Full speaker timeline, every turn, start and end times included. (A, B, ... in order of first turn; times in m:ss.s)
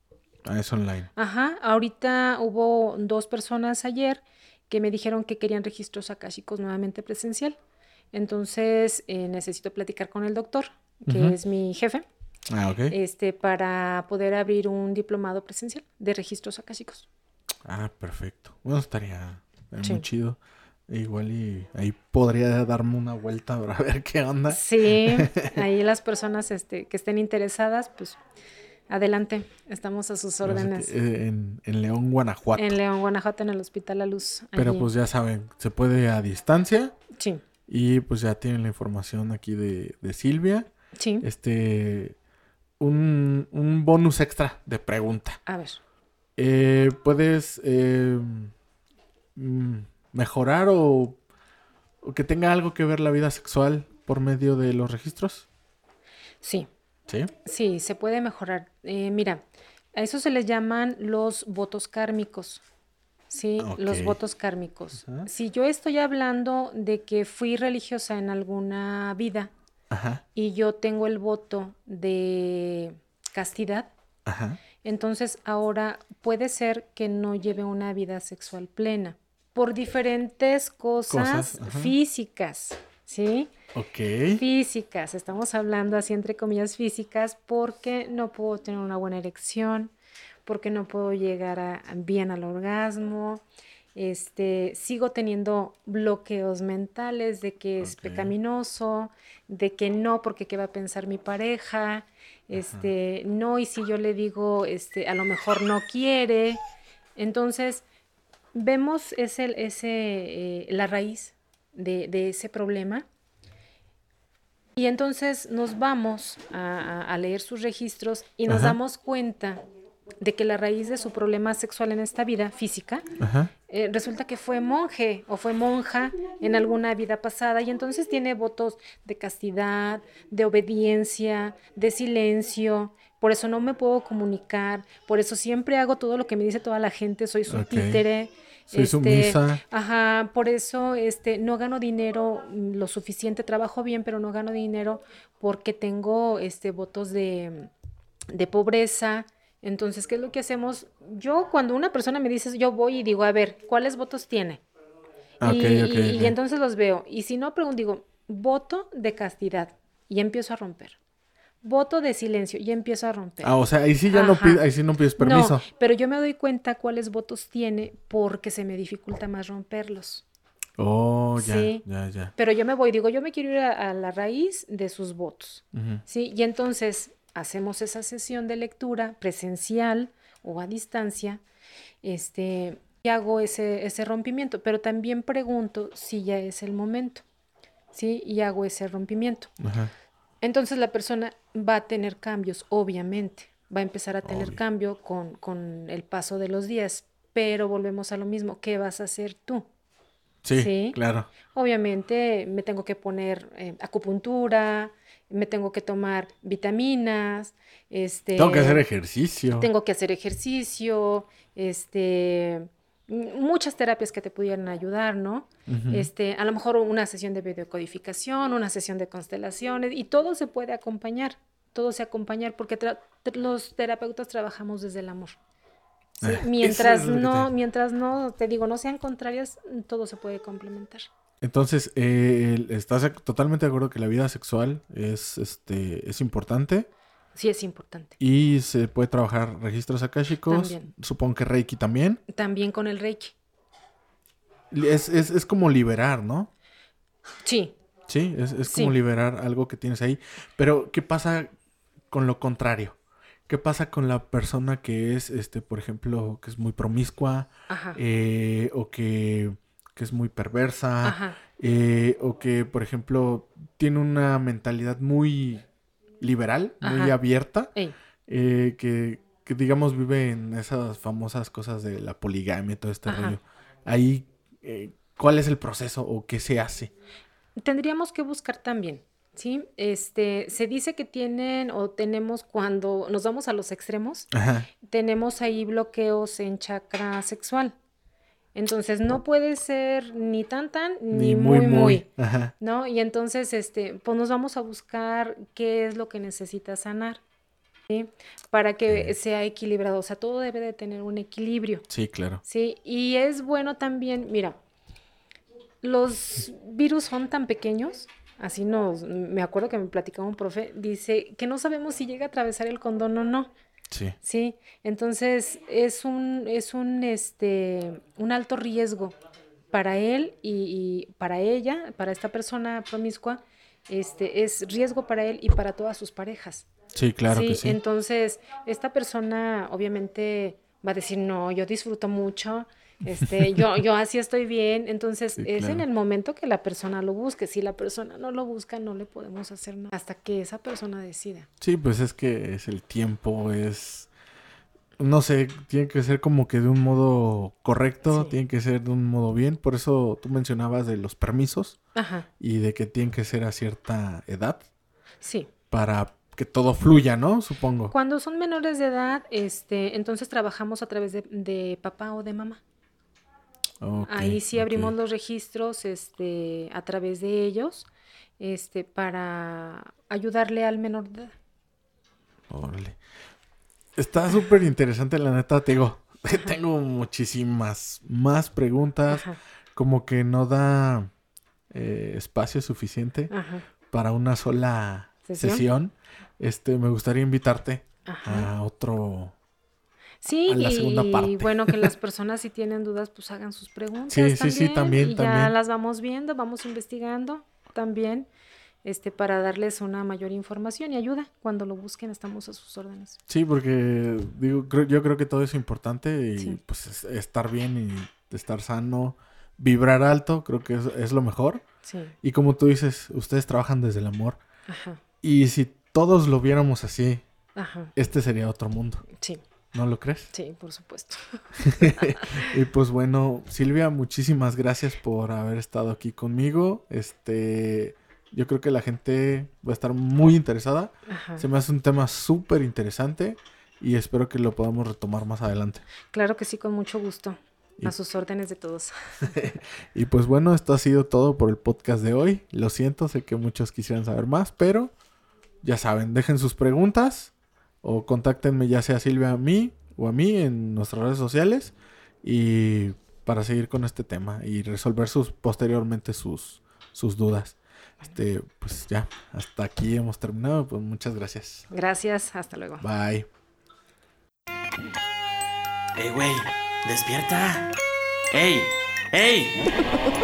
0:00.4-0:01.1 A
0:01.2-0:07.6 B
0:08.1-0:12.0 B
0:11.0-0:11.4 A
0:12.5-0:12.9 A
0:12.9-0:17.1 B
0:17.6-0:25.6 A
0:24.5-0:28.2 B
0:28.9-0:30.9 B
0:30.4-0:32.8 A
0:32.5-0:34.9 B
0:34.6-0:36.9 A
0:37.1-0:37.4 B
0:37.7-0:40.7 A
0:41.0-0:41.2 B
0:41.2-0:42.2 A
0:42.8-0:45.4 A
0:45.4-0:45.8 B
0:46.4-0:48.5 A
0:49.3-0:51.2 A
0:52.0-0:55.5 A
0:56.4-0:56.7 B
0:57.4-0:59.4 B
0:59.9-1:02.6 B
1:03.3-1:09.5 B
1:03.6-1:04.2 A
1:09.9-1:10.2 A
1:10.3-1:13.9 B
1:14.2-1:14.6 A
1:14.8-1:23.5 B
1:21.1-1:21.9 A
1:23.7-1:24.4 A
1:24.4-1:29.9 B
1:30.4-1:33.4 B
1:33.9-1:46.6 B
1:37.8-1:38.3 A
1:42.5-1:42.9 A
1:47.2-1:47.8 B
1:48.5-1:53.0 B
1:54.8-1:59.6 B
1:58.5-1:58.8 A
2:00.2-2:03.0 B
2:03.2-2:03.5 A
2:03.7-2:27.7 B
2:17.5-2:18.0 A
2:18.7-2:19.6 A
2:28.3-2:34.6 B
2:35.4-2:36.3 A
2:35.4-2:41.0 B
2:41.6-2:43.5 B
2:43.4-2:45.6 A
2:44.1-2:44.6 B
2:45.2-2:50.2 B
2:50.8-2:52.3 A
2:51.4-2:51.8 B
2:52.4-3:01.4 B
2:55.7-2:56.0 A
3:02.0-3:07.2 B
3:07.9-3:09.5 B
3:09.6-3:09.9 A
3:10.4-3:19.7 B
3:14.2-3:14.6 A
3:20.4-3:21.3 A
3:20.5-3:28.8 B
3:28.4-3:29.7 A
3:29.6-3:45.4 B
3:35.7-3:36.1 A
3:46.2-3:47.5 A
3:46.2-3:51.1 B
3:51.4-3:56.9 A
3:57.3-3:58.2 B
3:58.2-4:02.2 A
4:00.5-4:00.9 B
4:02.3-4:03.3 B
4:04.7-4:06.5 A
4:07.4-4:07.7 B
4:08.1-4:11.5 A
4:08.6-4:09.0 B
4:12.1-4:13.0 A
4:13.5-4:25.6 A
4:17.7-4:18.0 B
4:21.0-4:21.4 B
4:26.2-4:27.7 A
4:26.8-4:27.2 B
4:28.3-4:36.9 A
4:33.0-4:33.4 B
4:37.6-4:44.3 B
4:44.3-4:44.7 A
4:44.8-4:47.7 B
4:48.5-4:52.1 B
4:51.1-4:52.5 A
4:52.6-4:57.2 B
4:57.9-5:01.9 B
5:01.9-5:02.4 A
5:02.4-5:04.6 B
5:05.8-5:13.5 B
5:13.9-5:14.2 A
5:14.2-5:19.1 B
5:19.7-5:26.7 B
5:26.9-5:27.8 A
5:27.3-5:41.5 B
5:33.2-5:33.6 A
5:35.4-5:35.8 A
5:41.6-5:44.1 A
5:45.0-5:51.8 A
5:48.1-5:48.4 B
5:51.9-5:52.3 B
5:52.4-5:54.6 A
5:55.2-5:55.5 B
5:55.7-5:57.9 A
5:57.9-6:02.6 B
6:03.8-6:04.9 A
6:04.1-6:07.9 B
6:08.4-6:11.3 B
6:12.5-6:13.0 A
6:14.0-6:21.1 A
6:19.1-6:19.4 B
6:21.7-6:23.3 A
6:23.3-6:23.6 B
6:23.9-6:29.3 A
6:25.2-6:25.6 B
6:28.0-6:28.5 B
6:30.2-6:38.3 B
6:30.5-6:31.9 A
6:34.1-6:35.5 A
6:38.8-6:43.2 B
6:43.3-6:51.6 A
6:51.8-6:52.1 B
6:52.2-6:54.4 A
6:54.7-6:55.0 B
6:55.2-6:57.2 A
6:57.6-6:57.9 B
6:58.0-6:59.0 A
6:59.1-6:59.4 B
6:59.7-7:00.3 A
7:00.3-7:02.4 B
7:01.6-7:15.8 A
7:11.1-7:11.4 B
7:16.1-7:19.4 B
7:19.2-7:24.9 A
7:25.6-7:41.7 A
7:41.7-7:42.8 B
7:42.8-7:43.3 A
7:46.0-7:47.7 C
7:48.3-7:49.7 C